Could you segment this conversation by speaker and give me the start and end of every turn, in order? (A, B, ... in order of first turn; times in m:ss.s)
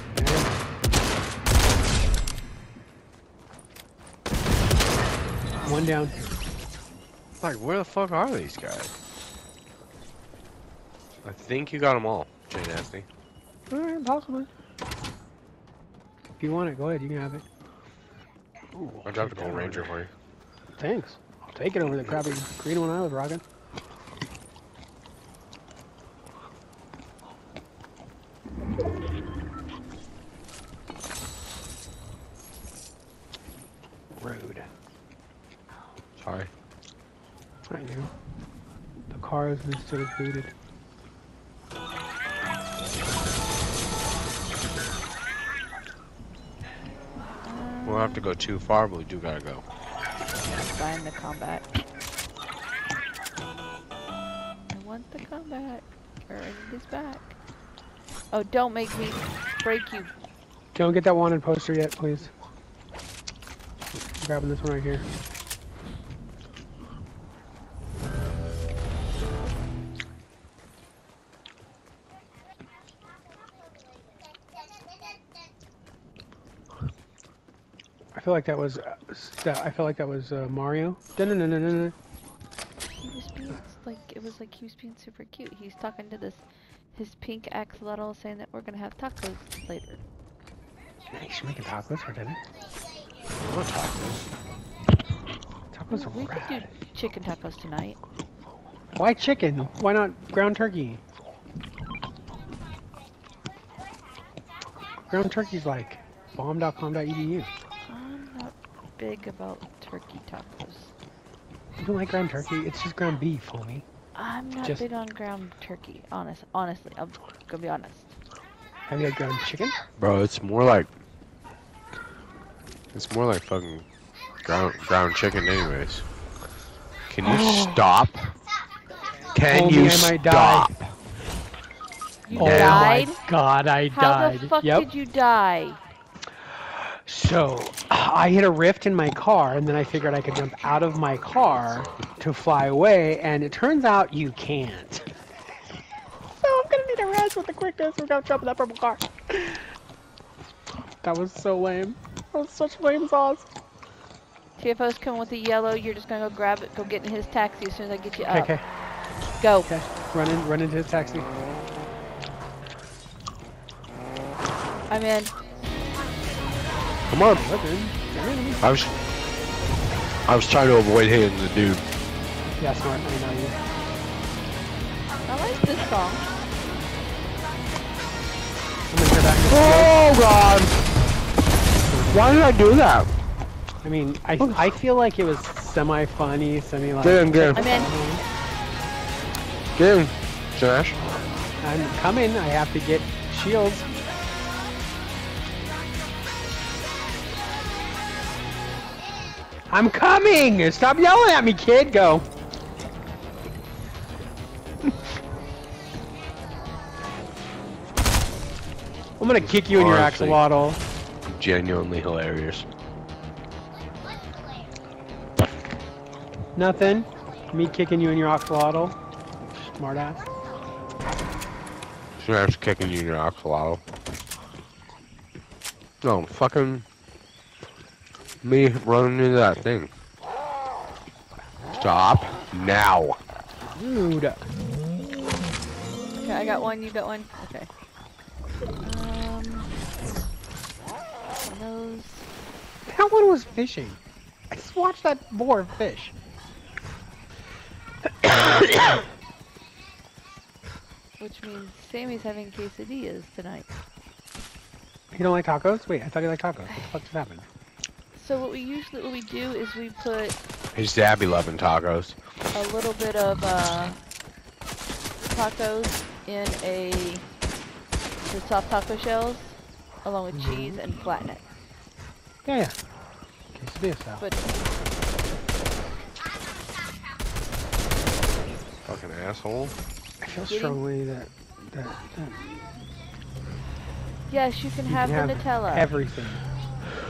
0:00.2-0:00.6 A
0:05.6-0:06.3 A
0:07.4-0:08.9 B
0:11.2-0:13.1 B
0:13.7-0:14.5 A
0:16.4-0:17.4 A
0:18.7-0:19.9 A
0:19.0-0:20.1 B
0:20.8-0:23.4 A
0:34.2-0:34.7 A
0:36.2-0:36.5 B
0:37.7-0:38.1 A
0:39.1-0:40.5 A
0:47.4-0:48.3 C
0:47.8-0:49.6 B
0:50.5-0:51.6 C
0:54.7-0:57.4 C
0:58.3-1:00.1 C
1:00.8-1:02.3 A
1:04.2-1:05.0 A
1:18.2-1:22.0 A
1:23.0-1:26.4 C
1:27.0-1:30.0 C
1:31.1-1:32.4 A
1:33.4-1:34.2 B
1:35.7-1:36.7 A
1:35.9-1:38.0 C
1:39.0-1:41.0 A
1:45.1-1:47.5 A
1:47.8-1:50.9 C
1:51.8-1:53.8 A
1:54.2-1:58.1 C
1:58.9-1:59.8 A
2:00.0-2:00.9 B
2:02.9-2:03.9 B
2:04.4-2:06.0 B
2:07.1-2:08.3 B
2:07.2-2:07.8 A
2:09.3-2:10.7 B
2:09.5-2:10.8 A
2:12.3-2:13.2 C
2:12.3-2:13.0 B
2:12.3-2:14.9 A
2:13.9-2:15.8 C
2:16.7-2:25.1 A
2:26.4-2:29.7 A
2:31.0-2:33.5 A
2:34.6-2:38.5 C
2:38.3-2:38.6 A
2:39.4-2:39.7 C
2:39.7-2:41.3 A
2:44.9-2:45.3 C
2:47.1-2:47.4 B
2:47.3-2:48.6 A
2:48.6-2:48.9 B
2:50.3-2:51.8 B
2:52.6-2:53.6 A
2:55.3-2:56.3 C
2:58.9-2:59.9 A
2:59.5-3:00.7 B
3:01.9-3:02.4 A
3:02.1-3:03.1 B
3:03.8-3:08.2 A
3:07.0-3:07.7 B
3:07.6-3:07.9 C
3:09.8-3:11.0 B
3:11.6-3:13.9 A
3:19.7-3:22.2 A
3:29.2-3:30.8 A
3:29.4-3:30.4 B
3:31.2-3:32.7 B
3:36.6-3:39.0 A
3:39.5-3:40.3 A
3:42.2-3:43.8 B
3:46.0-3:46.9 B
3:48.4-3:49.9 B
3:51.8-3:53.2 B
3:53.8-3:54.5 A
3:56.2-3:57.7 C
3:58.8-3:59.8 C
4:01.4-4:02.3 C
4:02.9-4:04.0 A
4:04.5-4:06.1 A
4:08.2-4:09.0 A
4:11.2-4:13.7 C
4:15.1-4:17.5 A
4:18.2-4:20.4 C
4:20.7-4:22.2 B
4:22.5-4:24.0 C
4:25.2-4:27.2 C
4:28.3-4:31.4 C
4:30.3-4:30.8 A
4:32.4-4:32.7 A
4:33.5-4:34.2 A
4:38.8-4:39.7 B
4:40.2-4:42.5 A
4:40.4-4:40.8 C
4:44.3-4:45.9 C
4:44.9-4:46.4 A